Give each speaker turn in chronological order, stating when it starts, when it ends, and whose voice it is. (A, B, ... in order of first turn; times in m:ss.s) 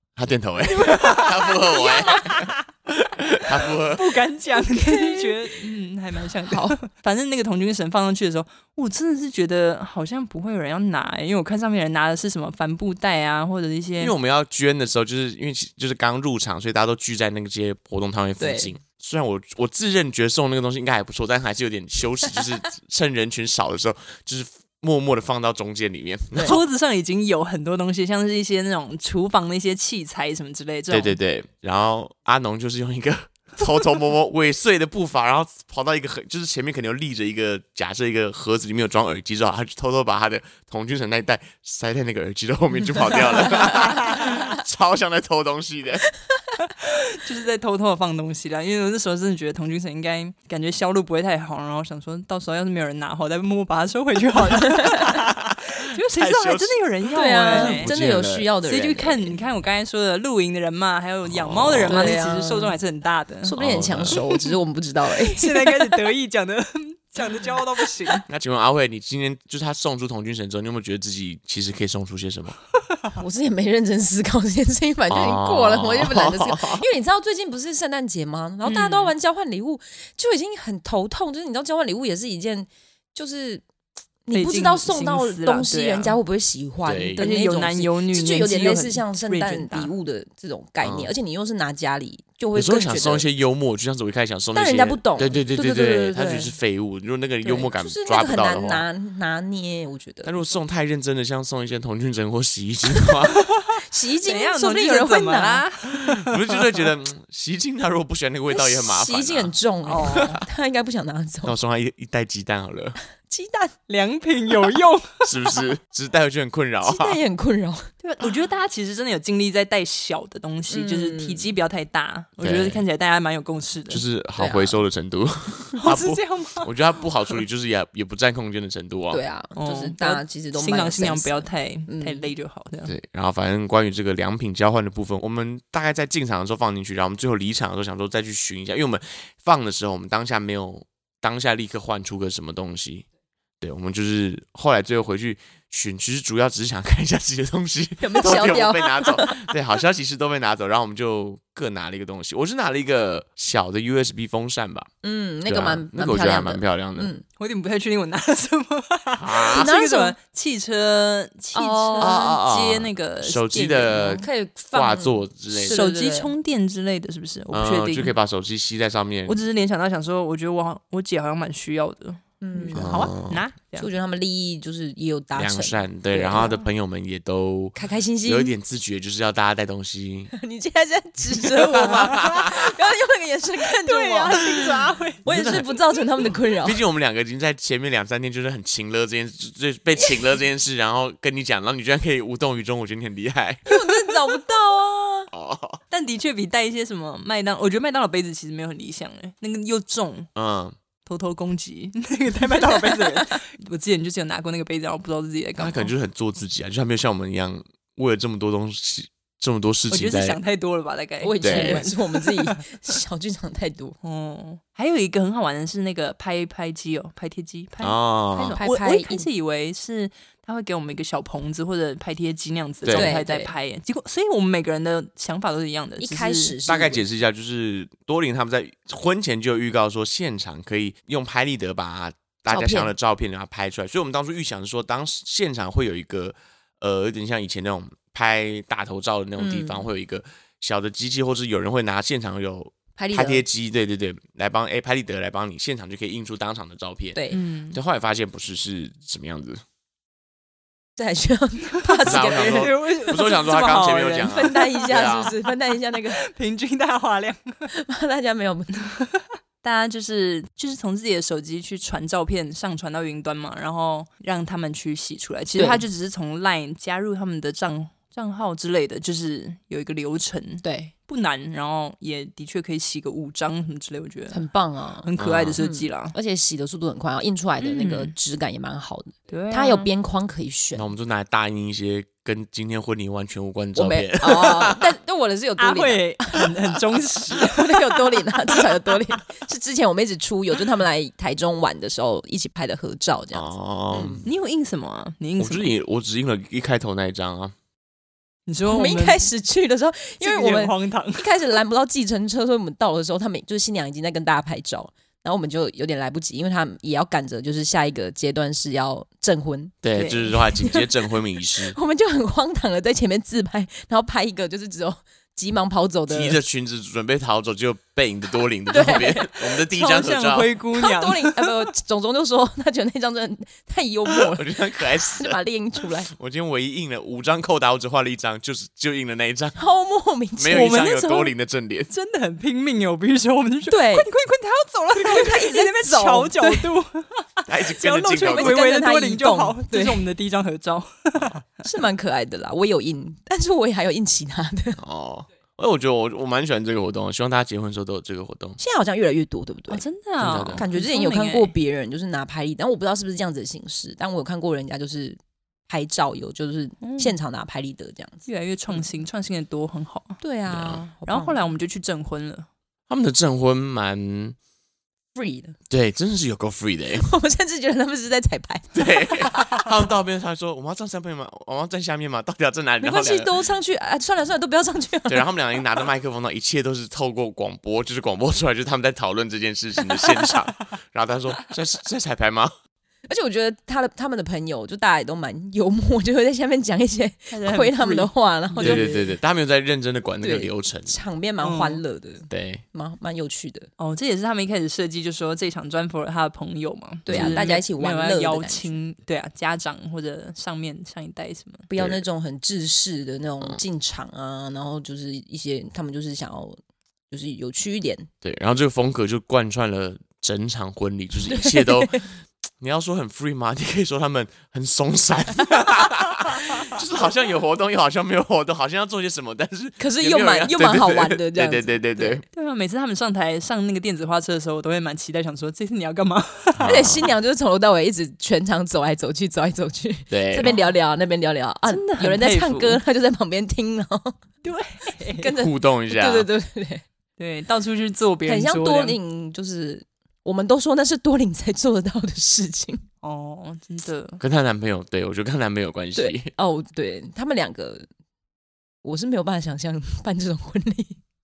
0:00.2-0:04.2 A
0:00.8-0:02.4 B
0:02.2-0:02.5 C
0:03.6-0:14.1 C
0:04.6-0:05.6 B
0:06.4-0:06.8 B
0:14.0-0:26.6 A
0:18.4-0:18.7 B
0:26.3-0:26.6 B
0:26.4-0:31.2 C
0:30.9-0:46.0 A
0:46.8-0:57.9 C
0:54.8-0:55.1 B
0:55.0-0:58.5 A
0:57.1-0:59.4 B
0:58.6-1:03.5 C
1:01.3-1:02.1 A
1:01.9-1:02.8 B
1:03.4-1:06.0 B
1:03.6-1:04.2 A
1:04.1-1:04.4 C
1:05.1-1:08.2 C
1:08.3-1:12.6 A
1:13.2-1:23.6 B
1:15.1-1:16.8 A
1:18.6-1:19.1 C
1:24.3-1:33.2 B
1:24.3-1:26.2 C
1:26.8-1:27.2 A
1:27.2-1:29.9 C
1:30.8-1:31.1 A
1:32.5-1:38.8 A
1:34.5-1:36.5 B
1:37.4-1:40.4 B
1:40.2-1:43.5 A
1:43.9-1:45.6 B
1:44.2-1:46.8 C
1:45.9-1:49.5 A
1:48.5-1:51.6 B
1:49.8-1:50.4 C
1:50.0-1:50.4 A
1:51.4-1:53.0 A
1:53.3-1:53.7 B
1:53.9-1:55.4 C
1:55.2-1:57.2 A
1:56.8-1:57.9 B
1:58.0-2:04.0 C
2:00.7-2:01.5 B
2:02.4-2:02.8 A
2:03.9-2:09.2 A
2:04.4-2:04.8 B
2:05.8-2:06.8 C
2:09.1-2:12.2 B
2:09.6-2:12.9 C
2:12.8-2:23.0 A
2:23.6-2:34.9 A
2:28.0-2:29.4 B
2:35.0-2:37.2 B
2:35.5-2:37.1 A
2:37.3-2:44.2 C
2:39.2-2:39.7 A
2:39.5-2:40.1 B
2:41.5-2:42.2 B
2:42.0-2:45.8 A
2:44.2-2:46.3 B
2:45.6-2:48.1 C
2:47.5-2:49.4 A
2:49.3-2:53.9 C
2:52.4-2:53.1 B
2:52.7-2:53.4 A
2:53.8-2:56.6 B
2:55.3-3:00.3 A
2:57.7-2:58.5 B
3:00.3-3:04.5 B
3:01.4-3:02.8 A
3:03.6-3:05.7 C
3:04.4-3:05.7 A
3:05.2-3:06.8 B
3:06.6-3:13.6 A
3:13.6-3:15.3 B
3:15.3-3:15.8 A
3:15.9-3:20.3 C
3:20.4-3:20.8 A
3:21.0-3:25.9 C
3:22.6-3:23.4 B
3:25.6-3:30.4 A
3:29.9-3:32.8 C
3:31.2-3:34.0 B
3:31.4-3:31.8 A
3:34.0-3:46.6 C
3:37.8-3:38.6 A
3:38.6-3:39.2 B
3:42.8-3:43.1 A
3:42.9-3:43.5 B
3:46.0-3:47.0 B
3:46.7-4:07.2 A
3:52.5-3:52.9 B
3:59.4-3:59.8 B
4:03.0-4:03.4 B
4:07.1-4:07.4 B
4:07.3-4:07.8 C
4:07.7-4:09.6 A
4:11.0-4:12.7 B
4:12.0-4:15.5 C
4:12.0-4:15.3 A
4:14.3-4:16.2 B
4:16.1-4:17.7 C
4:17.7-4:18.9 B
4:19.6-4:34.4 C
4:25.5-4:25.8 B
4:30.6-4:30.9 B
4:34.3-4:40.9 B
4:35.0-4:36.1 C
4:35.2-4:35.6 A
4:37.6-4:38.1 C
4:39.3-4:39.9 C
4:40.7-4:44.9 A
4:43.7-4:46.5 B
4:45.6-4:48.6 C
4:47.3-4:54.2 B
4:53.3-4:54.2 A
4:54.2-4:55.7 C
4:55.4-4:57.5 A
4:58.5-4:59.3 C
4:58.6-5:09.8 B
5:00.2-5:01.3 C
5:09.8-5:11.8 A
5:09.9-5:10.3 C
5:10.3-5:10.8 B
5:11.6-5:16.4 B
5:16.1-5:20.5 A
5:18.7-5:19.3 B
5:18.9-5:21.5 C
5:20.7-5:26.1 B
5:24.2-5:25.4 A
5:26.1-5:29.6 A
5:29.6-5:30.7 B
5:30.4-5:31.9 A
5:30.5-5:31.3 C
5:31.9-5:37.3 C
5:33.7-5:34.1 B
5:35.0-5:36.7 B
5:37.5-5:38.6 A
5:37.8-5:40.1 B
5:37.8-5:41.4 C
5:41.6-5:44.8 B
5:44.8-5:48.6 A
5:48.6-5:49.8 B
5:49.7-5:51.5 C
5:50.2-5:50.6 A
5:50.5-5:58.8 B
5:56.8-5:57.1 C
5:58.3-6:00.2 C
6:00.2-6:01.4 B
6:00.5-6:00.8 A
6:01.0-6:02.5 C
6:02.9-6:04.4 A
6:05.1-6:05.6 B
6:05.7-6:07.1 A
6:07.0-6:09.8 B
6:08.7-6:13.3 A
6:12.8-6:15.3 B
6:15.1-6:22.5 A
6:23.1-6:29.1 B
6:27.3-6:28.9 C
6:28.6-6:30.9 A
6:30.2-6:33.7 B
6:31.4-6:31.8 C
6:32.3-6:32.6 A
6:33.8-6:41.7 C
6:37.0-6:38.8 B
6:37.1-6:37.4 A
6:41.7-6:46.6 B
6:47.1-6:48.1 B
6:48.2-7:02.2 A
6:51.3-6:52.0 B
6:59.8-7:02.2 B
7:02.3-7:06.7 C
7:06.6-7:07.1 A
7:06.6-7:14.1 B
7:10.1-7:10.5 A
7:10.4-7:10.7 C
7:11.7-7:12.8 C
7:14.4-7:15.3 C
7:15.1-7:16.8 B
7:15.3-7:16.3 A
7:17.2-7:19.0 C
7:18.2-7:22.8 B
7:23.0-7:24.2 C
7:24.2-7:26.3 A
7:26.0-7:27.9 B
7:28.8-7:31.0 B